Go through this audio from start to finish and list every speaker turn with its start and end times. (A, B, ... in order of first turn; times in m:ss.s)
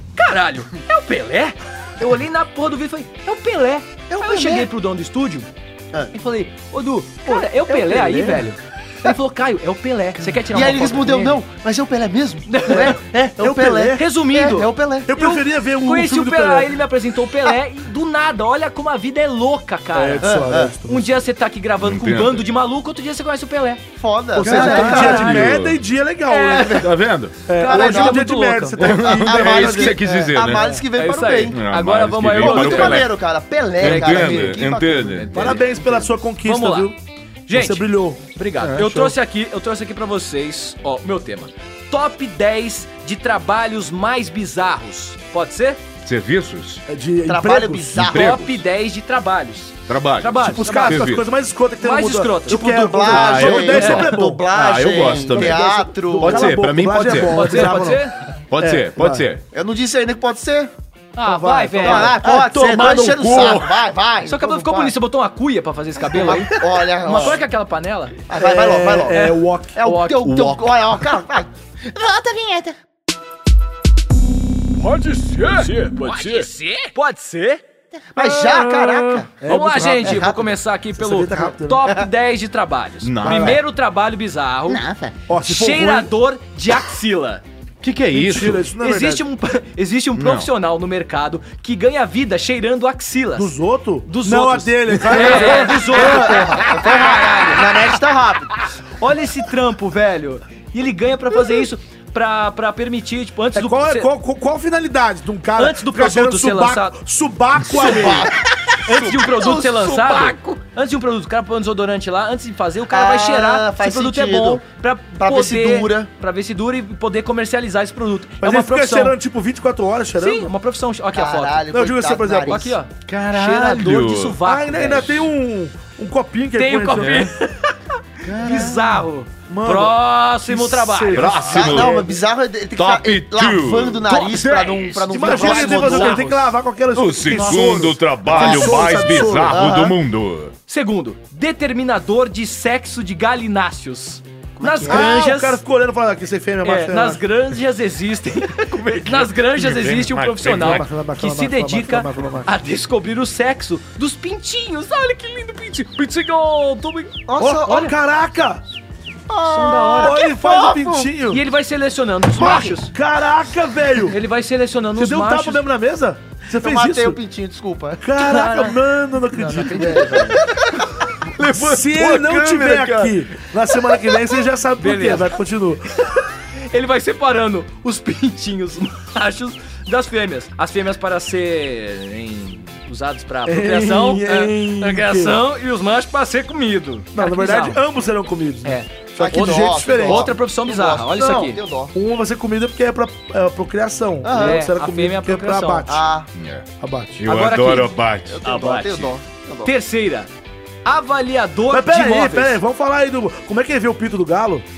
0:00.1-0:05.5 A
0:04.1-0:04.7 B
0:06.1-0:11.4 A
0:07.6-0:08.5 C
0:10.3-0:15.1 B
0:12.5-0:13.0 A
0:13.4-0:14.0 C
0:13.9-0:23.8 A
0:15.0-0:16.7 C
0:19.9-0:21.1 C
0:20.2-0:20.7 B
0:21.8-0:22.4 D
0:24.0-0:25.4 B
0:24.4-0:26.9 C
0:24.4-0:25.6 A
0:24.6-0:25.8 D
0:26.3-0:26.9 A
0:26.8-0:27.4 D
0:27.4-0:30.0 C
0:27.5-0:29.0 A
0:27.6-0:28.2 B
0:28.8-0:31.6 B
0:28.8-0:30.7 D
0:30.0-0:33.1 A
0:31.5-0:33.1 D
0:32.3-0:35.3 B
0:33.8-0:35.6 D
0:33.8-0:34.6 A
0:35.3-0:37.0 C
0:35.4-0:36.9 A
0:37.5-0:45.8 A
0:37.5-0:38.3 C
0:38.6-0:39.1 D
0:46.0-0:46.8 D
0:46.9-0:48.0 C
0:47.2-0:48.4 B
0:48.0-0:48.6 D
0:48.0-0:51.1 A
0:49.9-0:51.3 D
0:50.4-0:54.4 C
0:51.8-0:52.8 A
0:52.5-0:56.6 B
0:53.1-0:55.6 D
0:53.7-0:54.0 A
0:55.3-0:58.0 C
0:56.2-0:57.8 D
0:57.2-0:58.2 A
0:58.5-0:59.4 D
0:58.6-0:59.3 C
0:59.5-1:00.7 B
1:01.2-1:02.9 A
1:01.2-1:02.8 C
1:01.8-1:04.9 B
1:02.7-1:03.7 D
1:04.2-1:08.2 A
1:06.1-1:07.4 B
1:08.3-1:11.5 B
1:08.3-1:09.8 C
1:09.1-1:10.5 A
1:11.9-1:12.7 E
1:14.8-1:17.6 A
1:15.4-1:16.5 D
1:18.1-1:19.3 B
1:18.3-1:24.8 A
1:19.4-1:20.3 C
1:20.0-1:20.6 B
1:21.0-1:21.9 C
1:23.0-1:23.6 D
1:23.2-1:23.6 C
1:24.7-1:25.2 E
1:25.3-1:26.1 C
1:25.4-1:27.4 A
1:27.8-1:28.6 D
1:28.1-1:29.2 C
1:28.8-1:33.5 A
1:30.1-1:30.5 D
1:33.3-1:36.7 C
1:34.0-1:37.8 A
1:34.9-1:35.4 D
1:35.6-1:38.6 B
1:39.0-1:44.1 A
1:43.5-1:48.3 C
1:45.6-1:47.0 A
1:47.7-1:49.9 B
1:48.8-1:59.1 A
1:49.4-1:50.5 E
1:52.9-1:54.6 B
1:55.2-1:56.1 B
1:58.4-2:00.5 C
2:00.2-2:01.7 A
2:01.1-2:02.7 B
2:01.7-2:02.8 C
2:02.4-2:05.3 A
2:03.1-2:04.4 D
2:04.4-2:07.3 C
2:06.6-2:11.4 A
2:07.0-2:07.3 D
2:08.2-2:09.0 B
2:09.5-2:12.2 C
2:11.1-2:12.0 D
2:11.5-2:16.3 B
2:12.8-2:14.2 D
2:14.1-2:16.5 A
2:15.1-2:19.7 C
2:16.9-2:20.5 D
2:17.3-2:17.8 A
2:18.3-2:18.8 B
2:18.4-2:18.8 A
2:19.5-2:20.0 B
2:20.7-2:25.6 A
2:24.6-2:25.1 B
2:24.9-2:27.2 C
2:26.6-2:37.9 A
2:28.7-2:30.9 D
2:30.5-2:32.5 C
2:37.3-2:37.9 B
2:37.4-2:38.6 C
2:39.3-2:41.1 B
2:39.4-2:40.2 A
2:40.0-2:41.4 C
2:41.3-2:42.9 A
2:42.4-2:44.2 C
2:42.4-2:42.7 B
2:44.1-2:45.6 A
2:44.9-2:47.2 C
2:46.5-2:48.0 B
2:48.0-2:50.4 C
2:48.2-2:48.8 A
2:49.3-2:50.4 A
2:51.2-2:53.2 D
2:51.4-2:55.9 C
2:54.8-2:55.3 A
2:56.0-3:07.8 A
3:03.4-3:05.4 C
3:07.1-3:10.3 C
3:08.6-3:11.6 A
3:09.2-3:11.9 B
3:11.9-3:16.1 C
3:14.2-3:14.6 B
3:14.3-3:15.9 A
3:15.9-3:16.3 B
3:16.3-3:16.7 D
3:16.8-3:17.3 C
3:17.2-3:18.6 D
3:17.2-3:19.1 A
3:18.3-3:19.7 B
3:19.6-3:20.3 A
3:20.8-3:22.6 A
3:21.7-3:24.7 C